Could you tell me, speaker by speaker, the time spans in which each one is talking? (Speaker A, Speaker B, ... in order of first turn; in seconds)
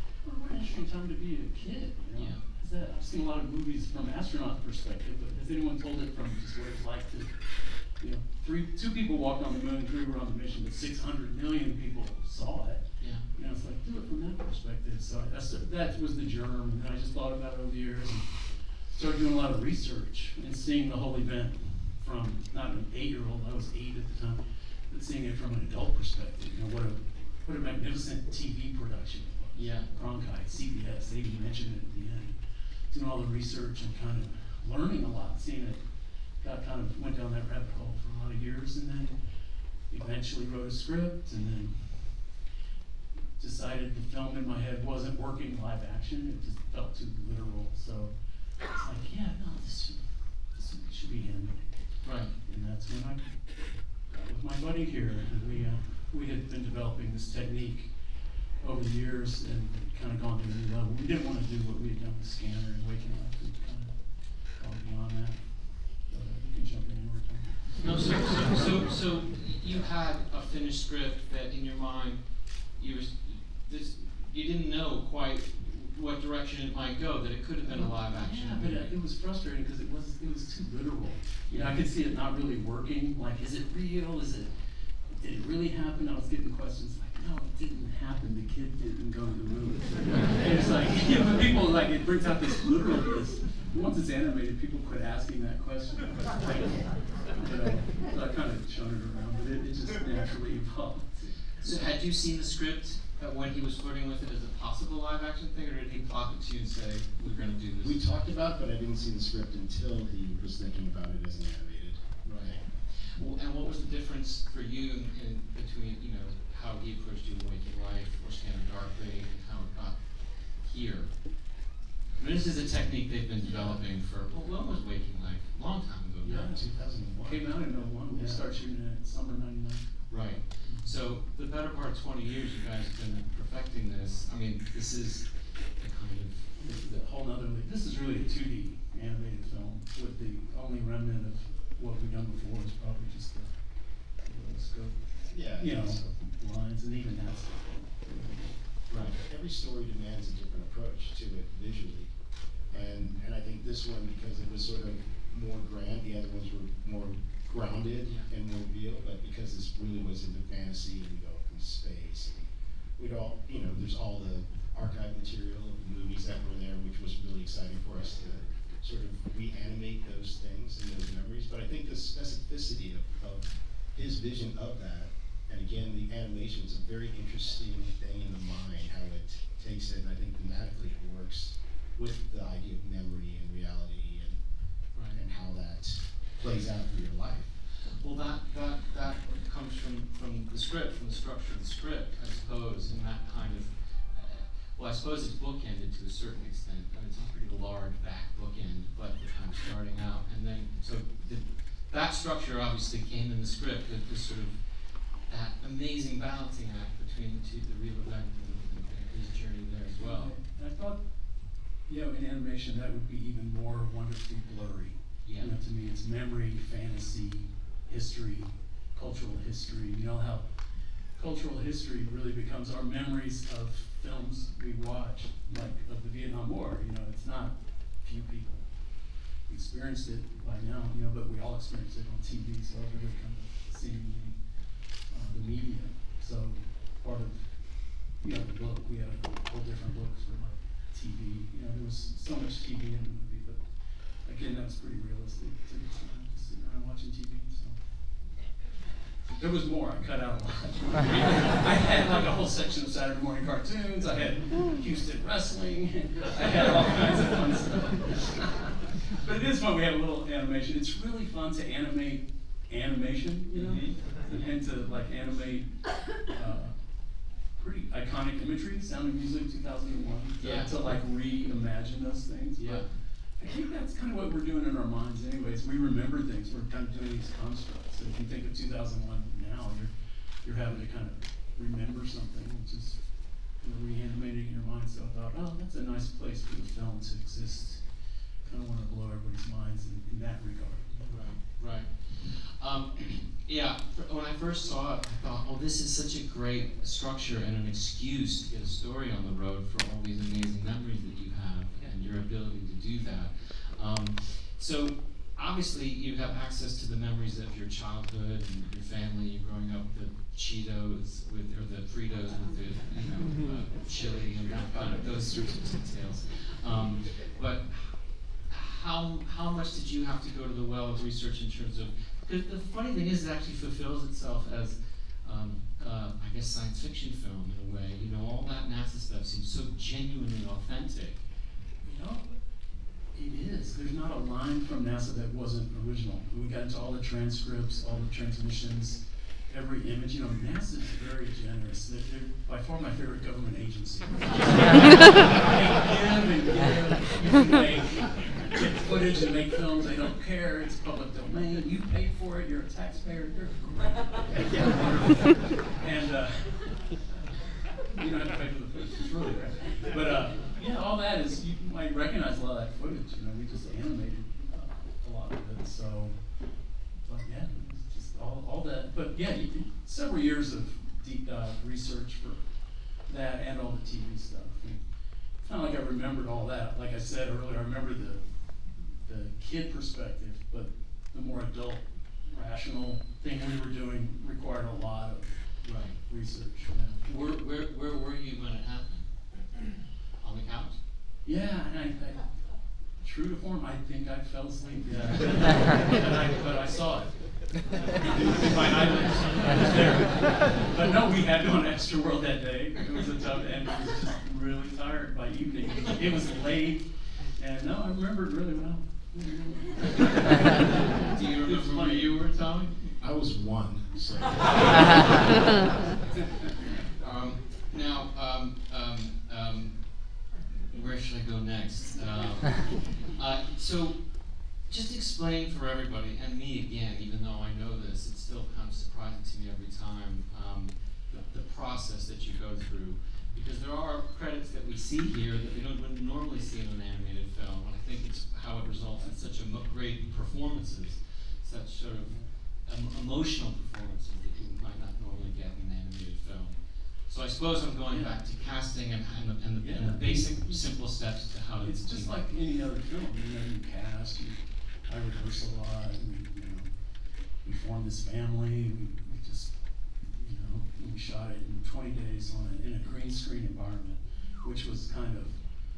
Speaker A: 0.2-35.8, 36.4-39.2, 39.9-42.4, 43.4-48.1, 48.6-58.0, 58.5-68.4, 77.6-84.5, 85.2-101.9, 126.2-126.6, 127.1-130.1, 136.6-148.7, 209.9-211.0, 211.8-220.4, 221.2-228.8, 229.4-234.4, 235.1-243.6, 244.2-247.8, 248.9-266.8, 267.6-272.8, 273.4-279.9, 280.4-291.4, 331.8-332.3, 333.1-356.9, 357.9-366.1, 367.0-372.4, 373.1-374.8, 375.4-386.9, 391.2-392.3, 393.0-412.1, 416.1-416.8, 442.0-442.3, 447.9-448.1, 449.6-450.7, 451.6-456.7, 457.4-465.4
Speaker B: 2.1-2.4, 29.5-29.9, 52.0-52.3, 67.8-78.9, 81.5-81.8, 101.6-108.0, 112.2-121.5, 122.2-126.6, 130.1-136.6, 184.9-185.2, 187.7-210.3, 215.2-215.5, 263.5-264.2, 270.4-270.7, 272.6-272.9, 291.1-331.2, 385.6-386.0, 386.7-389.1, 390.2-390.8, 411.1-413.0, 417.0-420.0, 420.7-452.3
Speaker C: 107.8-112.6, 123.5-123.8, 126.4-128.4, 130.1-130.4, 145.3-146.2, 148.9-152.2, 152.7-184.4, 185.0-187.6, 413.0-415.3